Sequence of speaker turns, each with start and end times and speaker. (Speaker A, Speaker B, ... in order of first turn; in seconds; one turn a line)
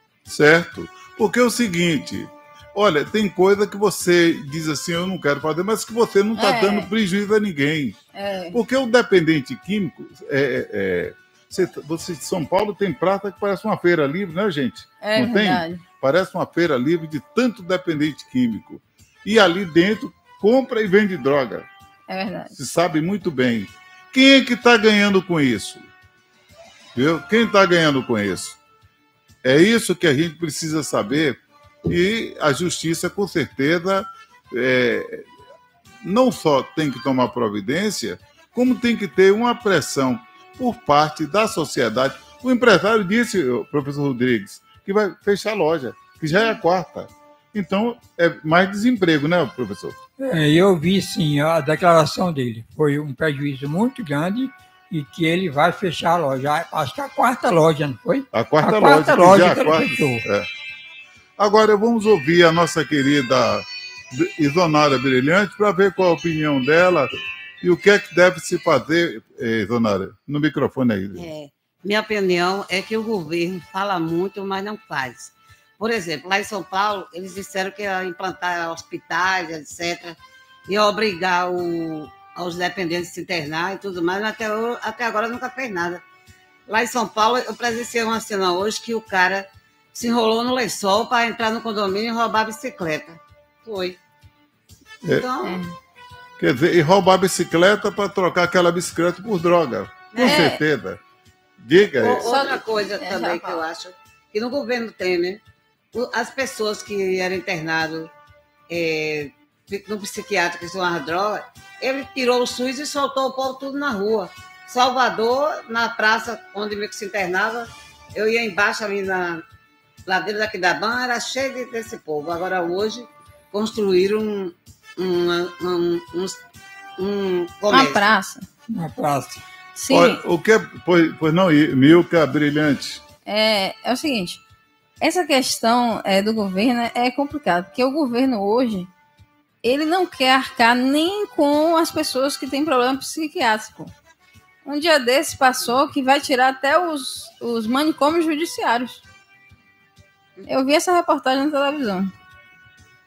Speaker A: 0.3-8.0
Speaker B: 6.4-6.9
Speaker B: 8.1-8.6
Speaker A: 8.5-21.7
Speaker B: 15.0-15.8
Speaker B: 22.1-22.5
Speaker A: 22.6-25.9
Speaker A: 26.9-28.6
Speaker A: 29.4-35.3
Speaker A: 36.0-50.0
Speaker C: 50.2-60.2
Speaker A: 58.3-60.5
Speaker A: 61.4-67.1
Speaker A: 67.6-71.3
Speaker D: 71.2-86.0
Speaker D: 86.7-94.0
Speaker D: 95.2-95.6
Speaker B: 95.4-95.7
Speaker A: 96.4-101.0
Speaker D: 100.1-100.4
Speaker B: 100.2-100.6
Speaker A: 101.6-102.3
Speaker D: 102.0-105.4
Speaker B: 102.2-103.6
Speaker D: 105.9-108.1
Speaker D: 108.7-119.4
Speaker D: 120.1-126.4
Speaker D: 127.0-128.1
Speaker B: 127.7-128.5
Speaker C: 128.7-129.4
Speaker B: 129.8-130.2
Speaker A: 129.9-133.0
Speaker B: 133.3-134.4
Speaker B: 135.0-138.9
Speaker B: 139.6-143.9
Speaker B: 144.7-149.0
Speaker B: 150.5-152.1